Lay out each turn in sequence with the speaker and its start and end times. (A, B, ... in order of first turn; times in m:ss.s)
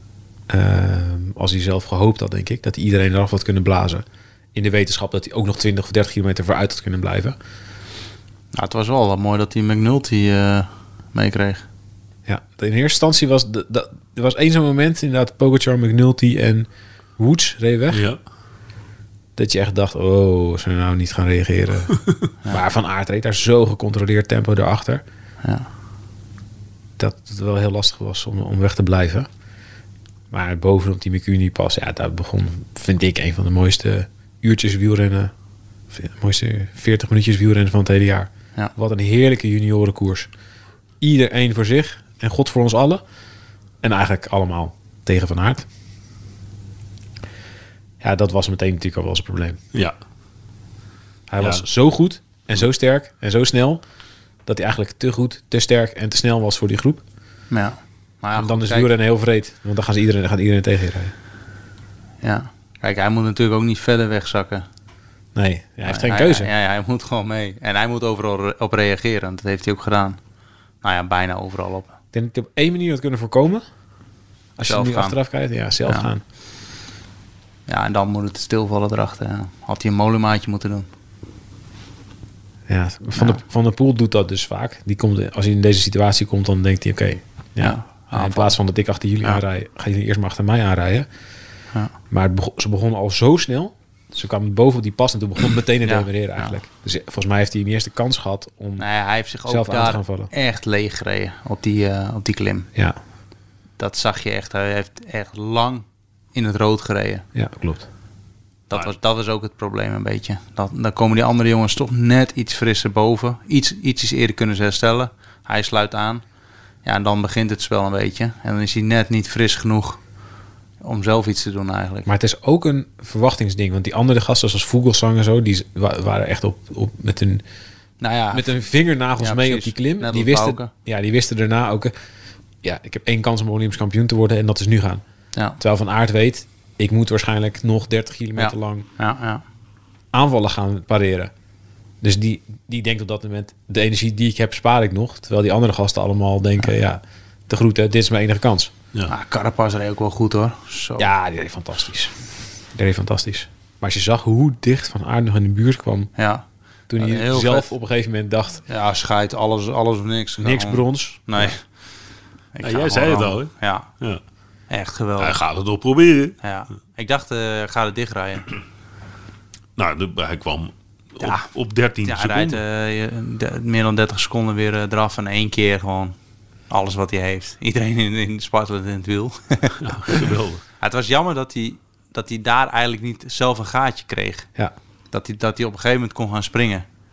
0:00.5-0:07.4 A
0:08.5-0:11.7 B
0:12.3-0:18.0 A
0:17.9-0:18.2 C
0:19.4-0:25.0 A
0:27.0-0:29.3 A
0:30.3-0:35.3 A
0:35.9-0:40.3 A
0:41.0-0:43.0 A
0:43.8-0:45.7 A
0:48.0-0:49.6 A
0:51.3-0:53.8 A
0:51.4-0:51.6 C
0:54.5-0:57.0 A
0:57.5-0:58.9 B
0:58.4-1:01.1 A
1:02.2-1:04.6 B
1:05.4-1:06.5 A
1:05.8-1:10.2 B
1:10.8-1:12.0 B
1:12.1-1:13.6 A
1:14.6-1:16.2 A
1:14.6-1:15.2 B
1:17.7-1:20.9 B
1:22.7-1:31.1 A
1:27.6-1:28.6 B
1:32.1-1:38.9 A
1:35.8-1:36.6 B
1:38.8-1:42.7 B
1:39.4-1:40.3 A
1:43.8-1:47.2 B
1:47.4-1:47.9 A
1:48.7-1:56.2 B
1:56.8-2:00.0 B
2:00.8-2:02.1 B
2:02.1-2:07.4 A
2:08.0-2:08.6 B
2:08.3-2:11.9 A
2:09.2-2:10.7 B
2:12.6-2:15.0 A
2:15.6-2:18.9 A
2:18.4-2:19.4 B
2:20.1-2:21.3 A
2:22.0-2:28.7 A
2:29.1-2:31.1 B
2:31.0-2:32.1 A
2:32.7-2:36.1 A
2:36.2-2:36.4 B
2:36.9-2:38.6 A
2:37.0-2:37.7 B
2:38.7-2:41.6 B
2:40.4-2:41.5 A
2:42.5-2:43.9 B
2:42.6-2:44.2 C
2:44.7-2:45.4 B
2:45.2-2:46.4 C
2:46.4-2:48.5 B
2:49.8-2:52.6 C
2:51.2-2:51.5 B
2:52.0-2:56.2 B
2:56.7-3:00.2 B
2:59.8-3:00.6 C
3:00.8-3:04.5 B
3:05.1-3:06.8 B